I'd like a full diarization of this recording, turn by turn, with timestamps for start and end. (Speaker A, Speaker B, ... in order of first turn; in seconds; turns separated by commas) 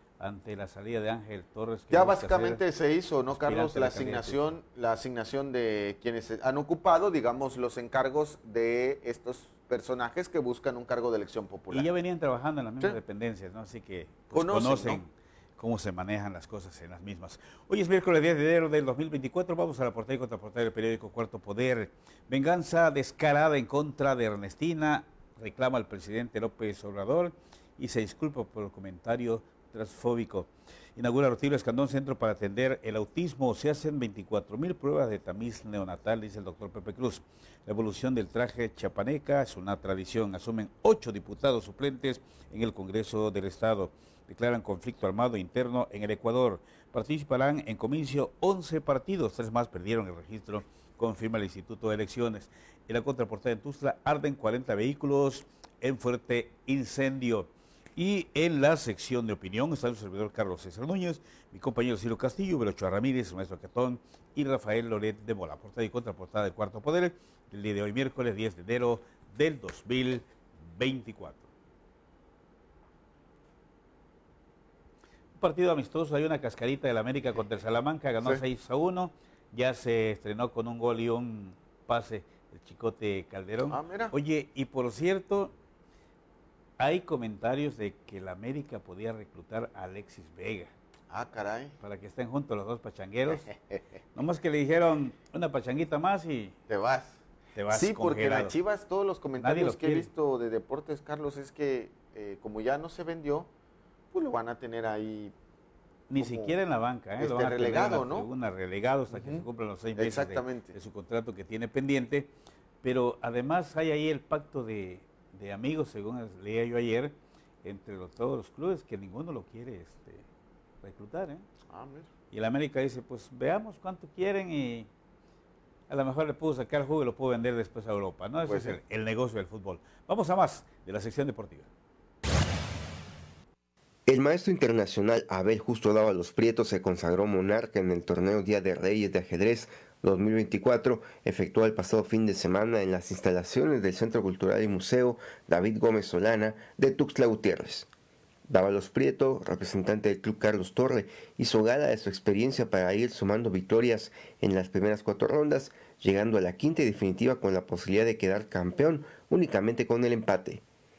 Speaker A: 0.2-2.6, Speaker B: 1.9-11.9, Speaker A: 3.4-4.4, Speaker A: 11.7-71.5, Speaker B: 14.3-15.0, Speaker A: 75.4-85.5, Speaker B: 83.7-84.1, Speaker A: 86.8-90.7, Speaker B: 91.1-91.7, Speaker A: 91.8-93.5, Speaker B: 93.5-93.7, Speaker A: 94.1-96.5, Speaker B: 96.7-97.2, Speaker A: 97.5-98.5, Speaker B: 97.7-103.5, Speaker A: 99.4-100.1, Speaker B: 104.1-105.3, Speaker A: 106.1-112.3, Speaker B: 106.2-106.6, Speaker B: 107.2-108.3, Speaker B: 109.1-110.8, Speaker A: 112.8-120.2, Speaker A: 120.8-121.4, Speaker B: 121.7-122.1, Speaker A: 122.3-124.9, Speaker A: 125.9-131.7, Speaker B: 128.4-128.8, Speaker C: 134.1-147.9, Speaker C: 148.5-160.6